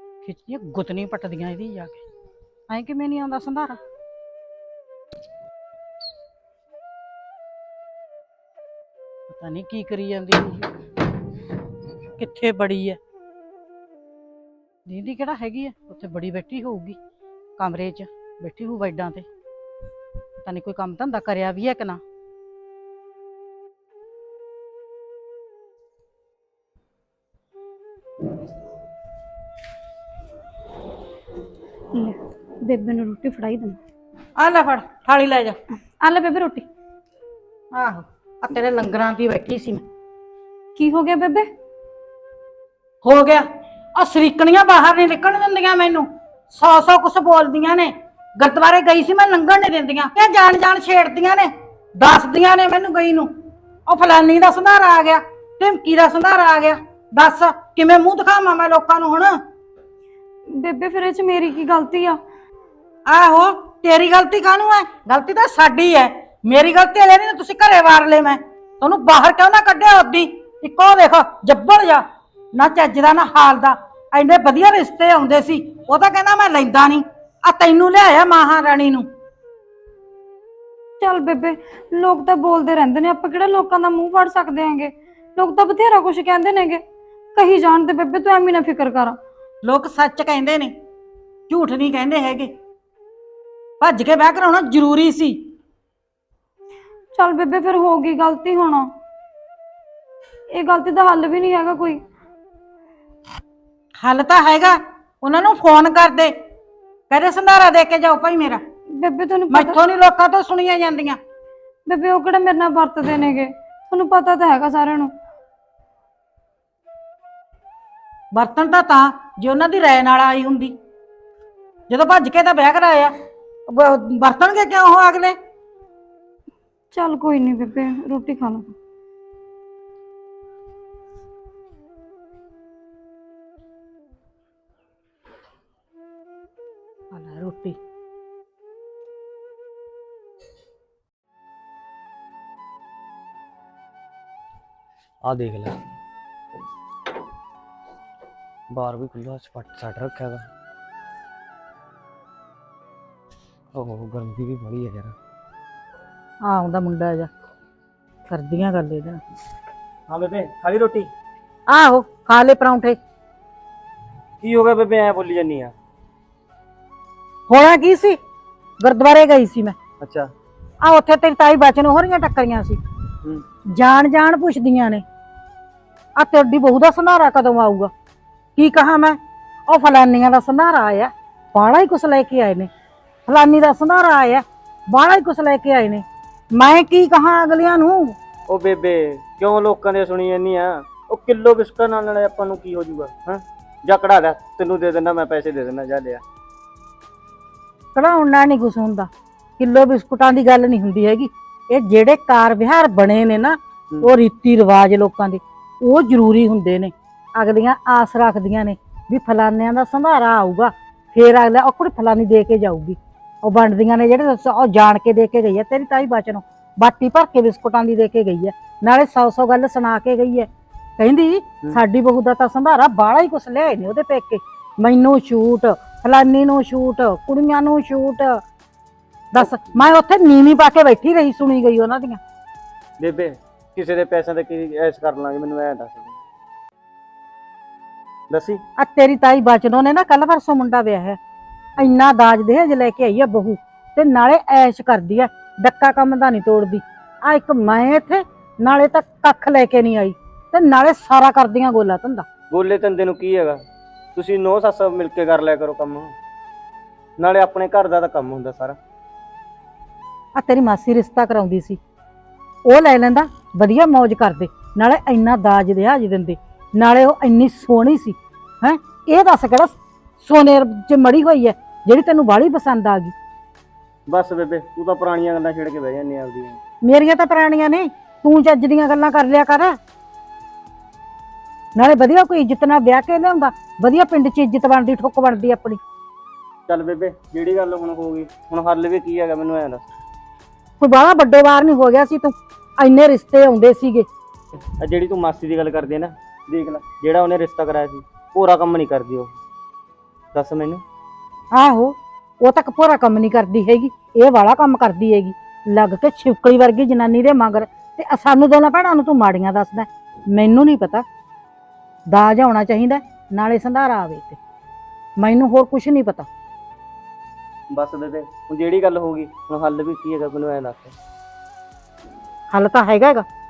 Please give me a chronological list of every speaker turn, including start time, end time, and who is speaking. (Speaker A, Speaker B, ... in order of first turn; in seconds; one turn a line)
Speaker A: 0.2-2.0
Speaker A: 2.7-3.8
Speaker A: 9.3-10.7
Speaker A: 12.2-13.0
Speaker A: 14.9-17.0
Speaker A: 17.6-19.3
Speaker A: 20.4-22.0
Speaker B: 31.9-33.8
Speaker A: 34.4-35.6
Speaker B: 36.0-36.7
Speaker A: 37.7-39.8
Speaker B: 40.8-41.5
Speaker A: 43.0-53.3
Speaker A: 53.9-59.4
Speaker B: 60.5-62.2
Speaker A: 63.1-79.1
Speaker B: 81.0-86.8
Speaker B: 87.3-89.2
Speaker A: 89.6-90.7
Speaker A: 91.5-92.5
Speaker A: 93.8-95.5
Speaker B: 97.2-98.9
Speaker B: 100.5-102.0
Speaker A: 104.0-106.3
Speaker A: 107.1-108.6
Speaker B: 108.9-109.8
Speaker A: 109.5-111.2
Speaker B: 111.9-115.1
Speaker A: 118.3-120.8
Speaker A: 121.9-123.1
Speaker A: 123.7-125.4
Speaker B: 126.9-128.8
Speaker A: 137.1-137.8
Speaker C: 145.2-145.8
Speaker C: 148.7-150.5
Speaker C: 153.7-155.2
Speaker A: 156.4-157.3
Speaker A: 158.3-159.2
Speaker C: 160.1-161.1
Speaker A: 161.7-163.0
Speaker C: 164.4-165.7
Speaker A: 167.5-168.2
Speaker A: 168.8-169.8
Speaker C: 170.0-170.3
Speaker A: 170.8-172.8
Speaker A: 173.7-175.0
Speaker A: 176.2-177.9
Speaker A: 178.6-182.7
Speaker A: 183.3-188.2
Speaker C: 188.5-196.2
Speaker A: 197.9-228.4
Speaker A: 229.3-232.2
Speaker C: 233.0-236.2
Speaker C: 238.3-238.6
Speaker A: 238.8-241.2
Speaker A: 241.8-252.2
Speaker C: 252.5-253.6
Speaker C: 254.2-256.1
Speaker C: 257.2-258.8
Speaker A: 260.4-261.8
Speaker A: 262.7-273.1
Speaker C: 274.1-276.6
Speaker A: 276.8-279.8
Speaker A: 281.8-285.8
Speaker C: 286.7-289.9
Speaker A: 290.8-294.1
Speaker C: 294.8-299.4
Speaker C: 300.3-300.8
Speaker A: 301.5-311.1
Speaker A: 312.1-314.4
Speaker A: 315.2-316.3
Speaker C: 317.7-321.0
Speaker A: 322.5-323.3